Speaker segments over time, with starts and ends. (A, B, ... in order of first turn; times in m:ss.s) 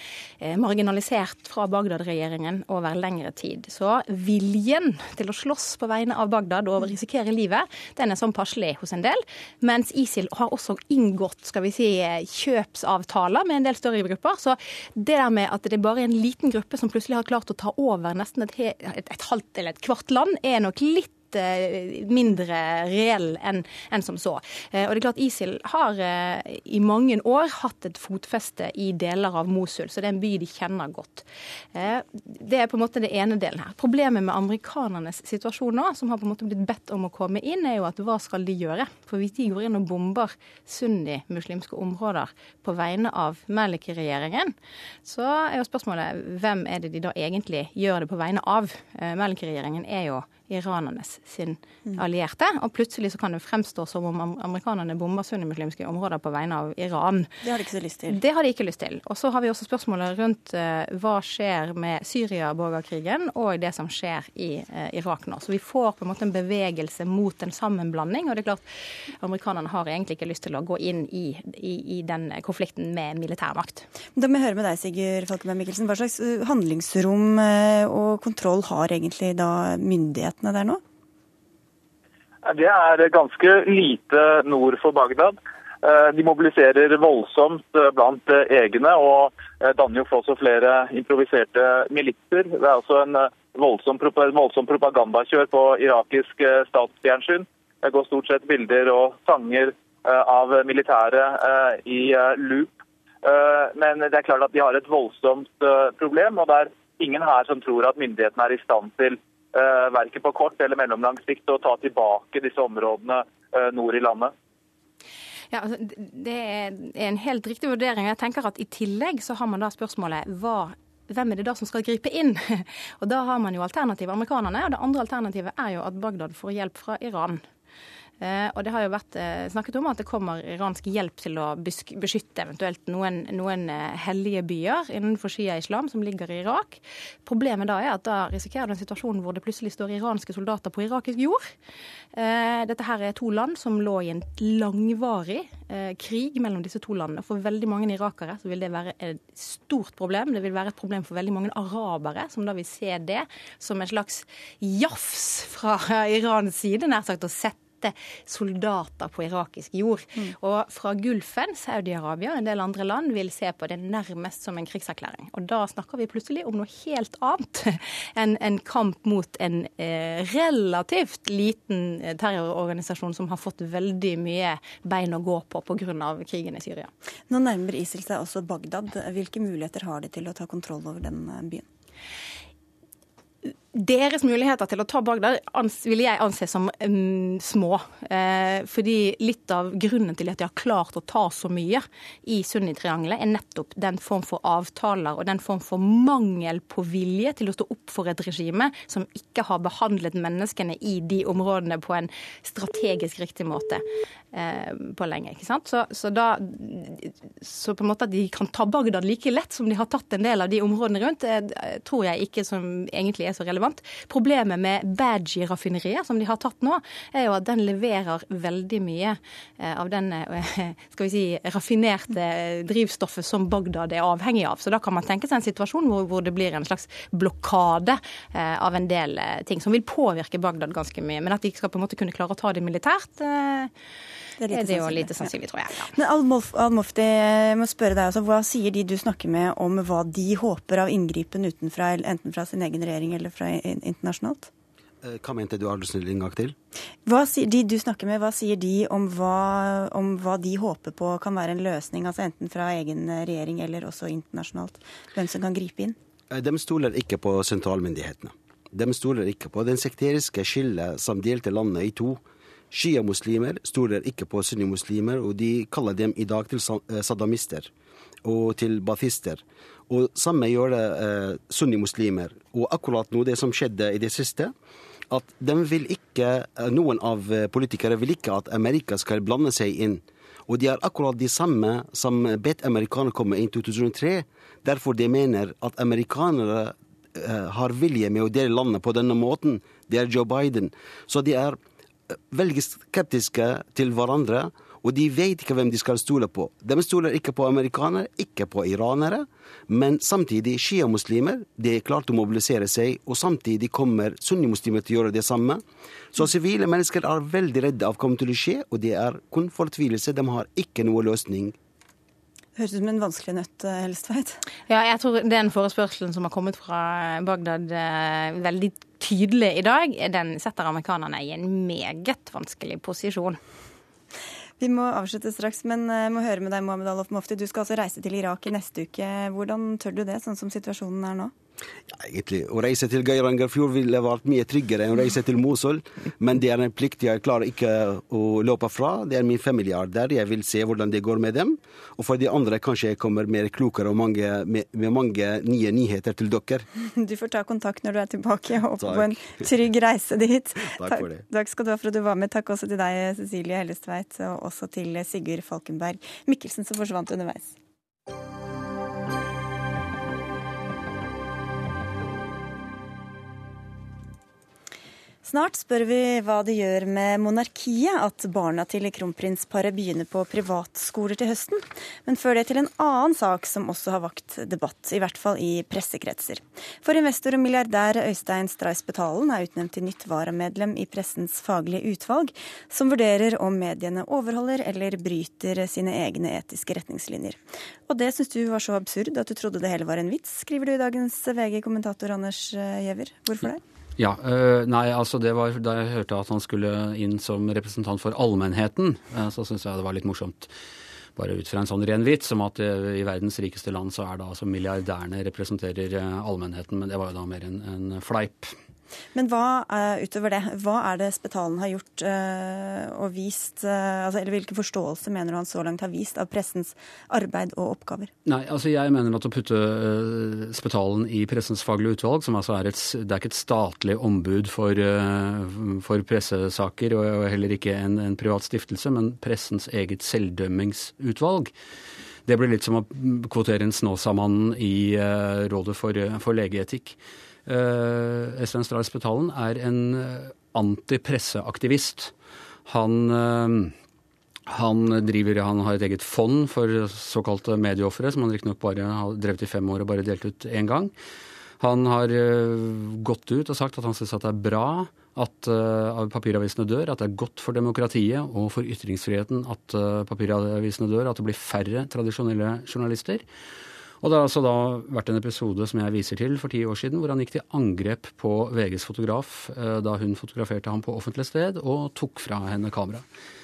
0:00.4-0:57.3 A
0:57.4-0:58.2 B
0:58.1-1:08.6 A
1:09.2-1:13.9 A
1:14.2-1:20.8 B
1:22.4-1:54.3 C
1:55.5-2:07.4 A
2:08.2-2:21.5 A
2:22.1-2:56.9 A
2:57.3-3:01.7 B
3:03.4-3:53.7 A
3:54.4-3:55.3 B
3:54.5-3:55.9 A
3:55.9-4:04.5 B
4:05.0-4:06.6 D
4:07.1-4:16.0 B
4:16.3-4:22.2 D
4:22.7-4:27.7 D
4:28.2-4:34.5 D
4:35.1-4:51.6 D
4:52.3-5:05.6 D
5:06.1-5:11.6 D
5:12.6-5:14.4 B
5:14.7-5:23.4 A
5:24.6-5:31.3 B
5:31.9-5:46.7 D
5:46.8-5:57.6 B
5:48.8-5:49.2 D
5:50.7-5:51.2 D
6:05.2-6:33.6 B
6:34.0-6:40.5 E
6:41.2-6:48.5 E
6:49.1-6:58.1 B
6:58.2-7:11.5 E
7:12.2-7:22.1 E
7:22.7-7:23.8 E
7:24.5-7:30.9 E
7:31.6-7:43.2 E
7:44.0-7:53.0 E